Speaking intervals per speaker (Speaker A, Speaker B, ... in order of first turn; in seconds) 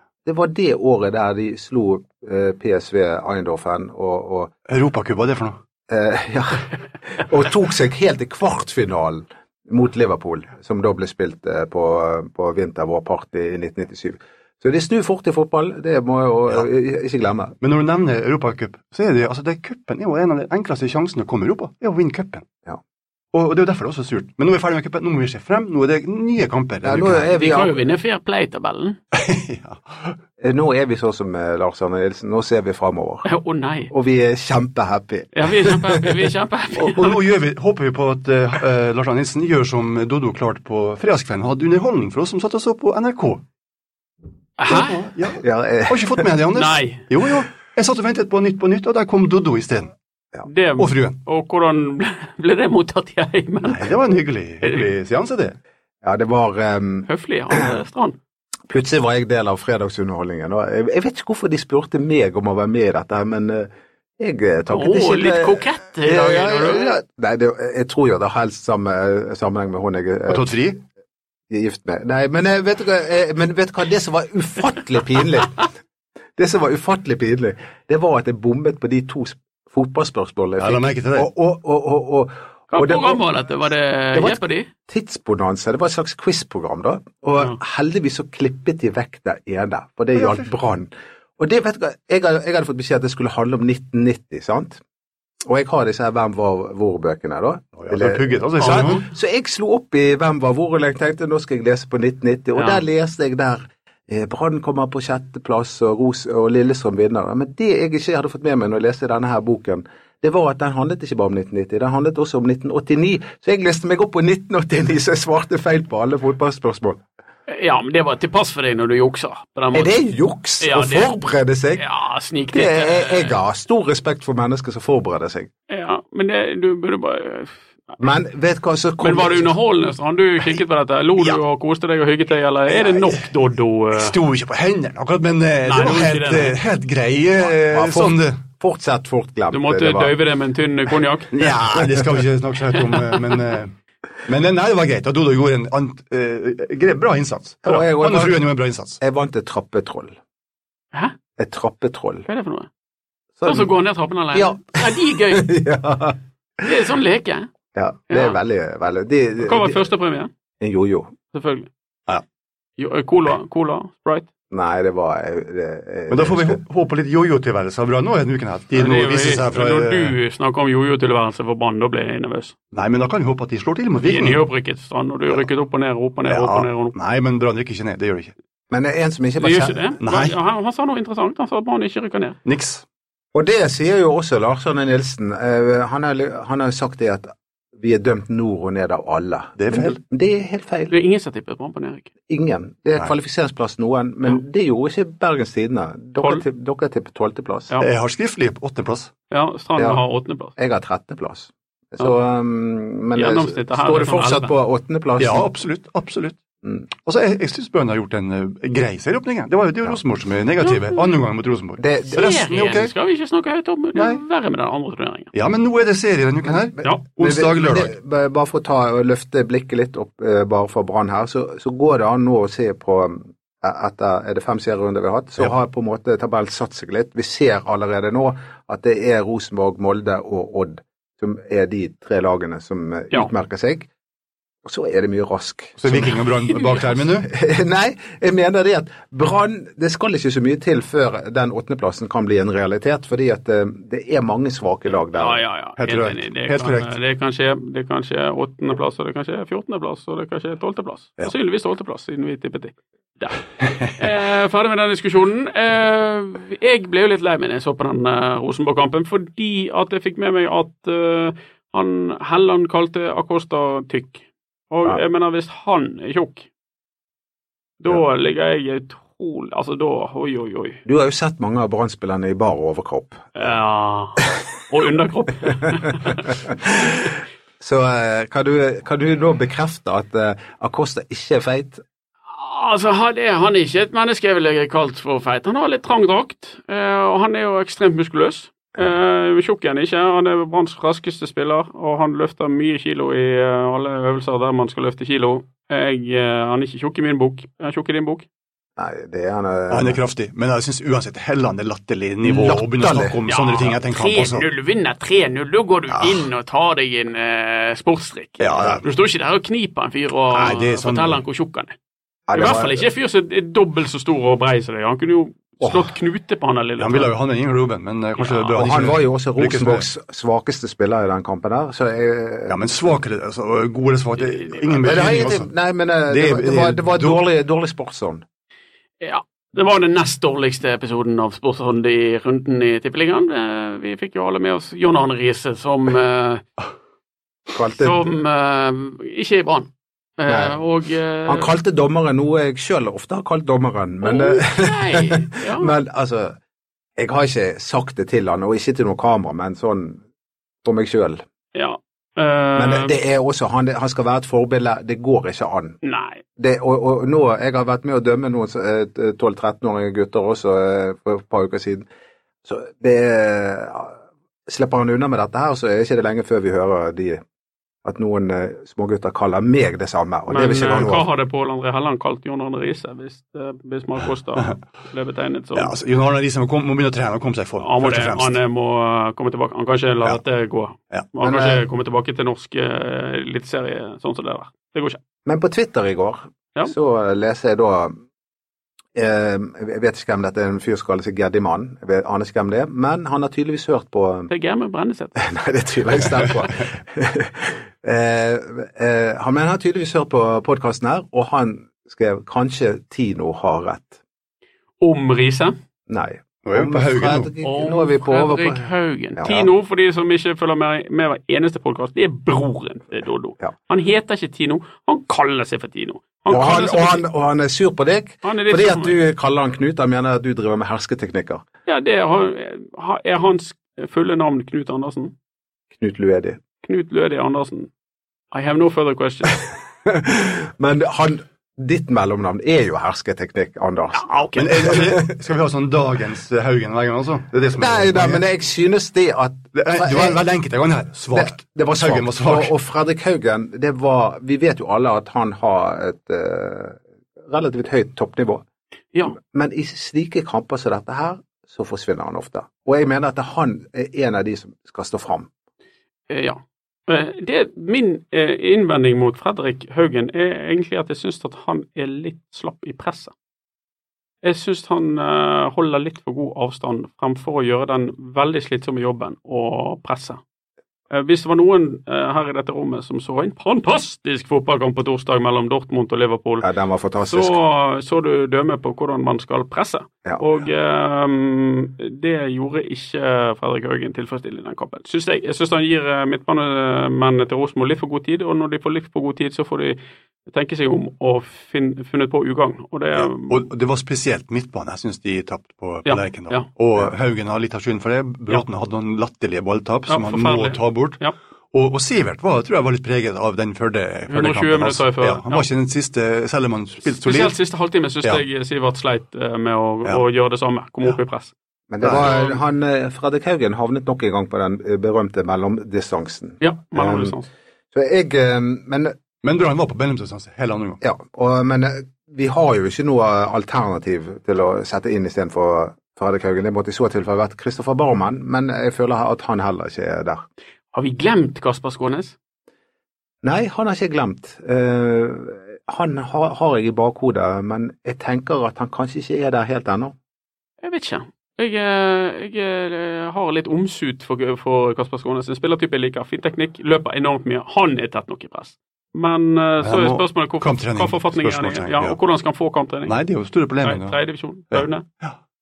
Speaker A: 0.2-4.5, 5.9-17.5, 26.8-27.8, 30.4-33.2, 33.9-36.1, 45.4-46.2, 56.0-57.7, 58.7-70.6, 71.5-75.7, 76.4-83.2, 84.1-94.8, 95.5-117.0, 119.7-121.8, 122.5-125.5, 128.0-129.5, 137.4-140.1, 147.6-148.4, 149.0-150.2, 151.4-152.2, 153.4-153.7, 154.3-156.6, 157.7-159.8, 160.6-161.1, 164.5-166.6, 178.7-179.9, 183.3-190.9, 192.3-197.7, 199.8-200.0, 200.6-205.5, 211.8-212.3, 217.2-233.9, 234.6-236.2, 237.2-245.4, 270.9-273.5, 276.1-281.8, 298.8-300.0, 302.2-303.2, 312.3-312.8, 318.6-322.6, 324.8-328.2, 337.5-338.1, 340.2-340.6, 341.2-346.4, 347.0-350.0, 350.6-351.2, 352.6-355.8, 356.4-361.9, 362.4-367.2, 367.8-371.1, 381.2-381.6, 385.2-388.0, 388.9-394.3, 395.1-404.0, 405.9-409.5, 416.3-421.4, 425.7-426.4, 429.8-434.1, 434.6-435.1, 437.6-440.2, 441.1-448.4, 449.1-455.3, 476.4-477.4, 511.7-517.2, 517.7-518.9, 520.8-530.2, 533.2-539.9
Speaker B: 4.7-5.6, 17.6-22.4, 23.3-27.3, 29.1-30.1, 36.7-43.4, 44.7-49.9, 50.8-51.2, 53.6-55.6, 70.3-70.8, 80.6-81.3, 90.2-90.5, 97.8-99.0, 132.8-133.3, 133.9-138.4, 141.3-143.7, 144.2-149.0, 166.1-170.2, 172.7-174.4, 176.3-178.3, 180.0-180.3, 182.4-182.8, 189.6-190.0, 197.8-199.1, 205.2-206.4, 207.0-212.9, 213.9-214.2, 215.3-217.9, 235.8-237.3, 245.8-246.9, 299.7-304.4, 305.9-306.2, 308.4-308.8, 310.3-311.2, 316.8-319.9, 322.5-325.5, 326.1-327.2, 375.5-378.4, 406.4-407.3, 434.4-438.2, 439.5-442.5, 493.0-501.0, 501.5-507.4, 511.8-512.1, 519.2-520.8, 549.6-552.0, 552.9-554.0, 554.5-555.2
Speaker C: 27.3-29.0, 33.2-33.9, 35.3-37.2, 44.6-45.0, 46.5-47.0, 50.5-53.9, 57.1-58.2, 64.7-66.9, 82.7-84.7, 98.6-99.0, 102.5-102.8, 117.5-119.9, 120.6-121.1, 121.8-123.4, 125.7-128.0, 129.0-134.1, 135.6-136.5, 139.5-141.5, 142.8-143.2, 152.3-152.7, 153.4-155.5, 156.6-157.5, 158.1-158.3, 159.4-160.3, 161.3-161.7, 162.8-164.3, 168.7-172.5, 174.0-176.9, 179.4-182.4, 190.9-192.1, 196.2-196.4, 199.3-200.5, 203.1-204.5, 210.6-211.1, 212.1-215.3, 245.1-253.4, 254.0-266.5, 267.8-270.8, 273.3-276.3, 282.3-298.3, 303.3-311.7, 312.3-317.1, 318.2-318.6, 324.2-325.2, 329.0-336.4, 337.8-341.5, 344.0-345.7, 351.5-353.0, 355.8-356.2, 370.3-375.7, 377.6-385.0, 394.3-395.2, 404.8-405.5, 407.4-417.0, 418.2-419.0, 421.6-425.1, 426.6-427.7, 428.3-429.4, 433.9-434.7, 456.1-463.1, 464.2-470.2, 470.9-476.5, 477.0-493.5, 495.9-496.5, 499.9-501.1, 504.1-505.5, 506.8-511.3, 511.8-512.4, 516.4-517.3, 530.7-532.1, 540.6-552.9, 553.6-554.9